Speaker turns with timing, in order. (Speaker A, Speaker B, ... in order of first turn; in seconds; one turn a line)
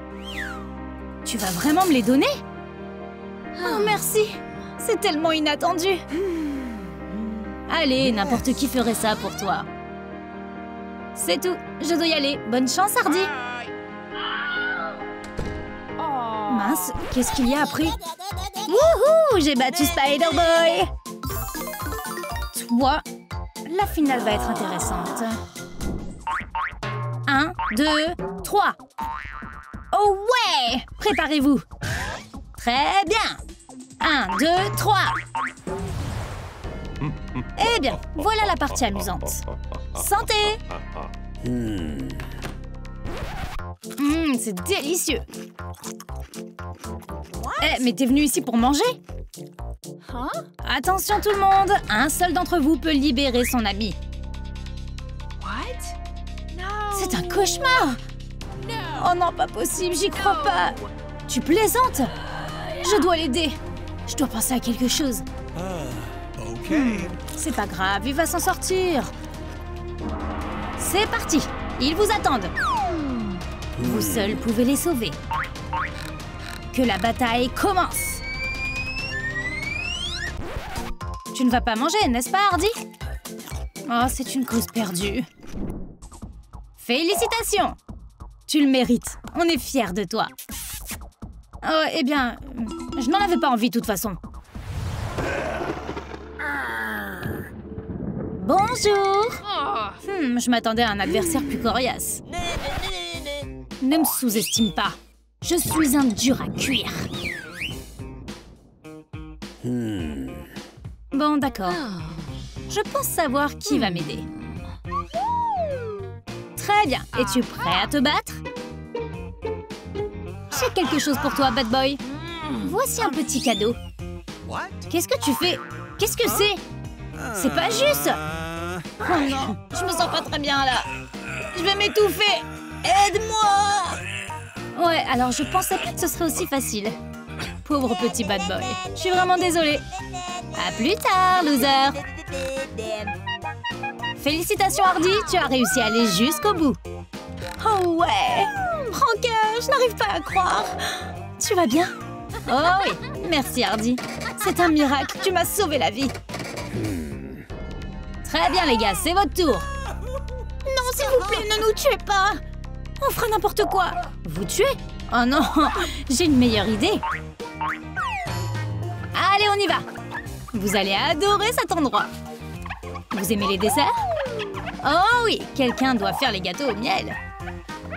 Speaker A: 1.2-2.3
Speaker A: 3.6-6.0
Speaker A: 7.7-9.7
Speaker A: 11.1-13.3
Speaker B: 16.0-16.5
Speaker A: 16.4-20.9
Speaker A: 22.5-23.0
Speaker A: 23.6-25.4
Speaker A: 27.2-28.8
Speaker A: 29.9-31.6
Speaker A: 32.5-33.4
Speaker A: 34.0-35.2
Speaker A: 37.6-40.6
Speaker A: 44.0-45.2
Speaker A: 47.6-49.0
Speaker B: 50.0-50.5
Speaker A: 50.6-54.0
Speaker B: 55.4-56.0
Speaker B: 56.5-57.1
Speaker A: 56.9-58.0
Speaker A: 58.9-62.1
Speaker A: 62.7-65.2
Speaker C: 65.6-67.0
Speaker A: 66.6-69.1
Speaker A: 70.8-72.5
Speaker A: 73.8-75.2
Speaker A: 76.7-78.2
Speaker A: 81.3-82.7
Speaker A: 83.8-85.3
Speaker A: 86.8-87.8
Speaker A: 88.5-90.3
Speaker A: 91.6-94.2
Speaker A: 98.4-99.5
Speaker B: 99.6-100.0
Speaker A: 100.0-102.2
Speaker A: 103.8-107.1
Speaker A: 111.1-111.9
Speaker A: 112.7-114.3
Speaker A: 116.5-118.4
Speaker A: 120.5-123.8
Speaker C: 124.4-124.8
Speaker A: 124.8-126.6
Speaker A: 127.3-128.2
Speaker C: 128.5-128.9
Speaker A: 129.0-130.9
Speaker A: 131.5-134.0
Speaker A: 134.7-137.0
Speaker A: 137.6-139.8
Speaker A: 140.5-142.0
Speaker A: 144.2-146.8
Speaker A: 147.6-156.1
Speaker A: 158.2-159.7
Speaker A: 160.6-162.4
Speaker A: 163.0-167.0
Speaker A: 169.1-169.8
Speaker A: 170.5-172.1
Speaker A: 173.1-173.9
Speaker A: 174.8-177.2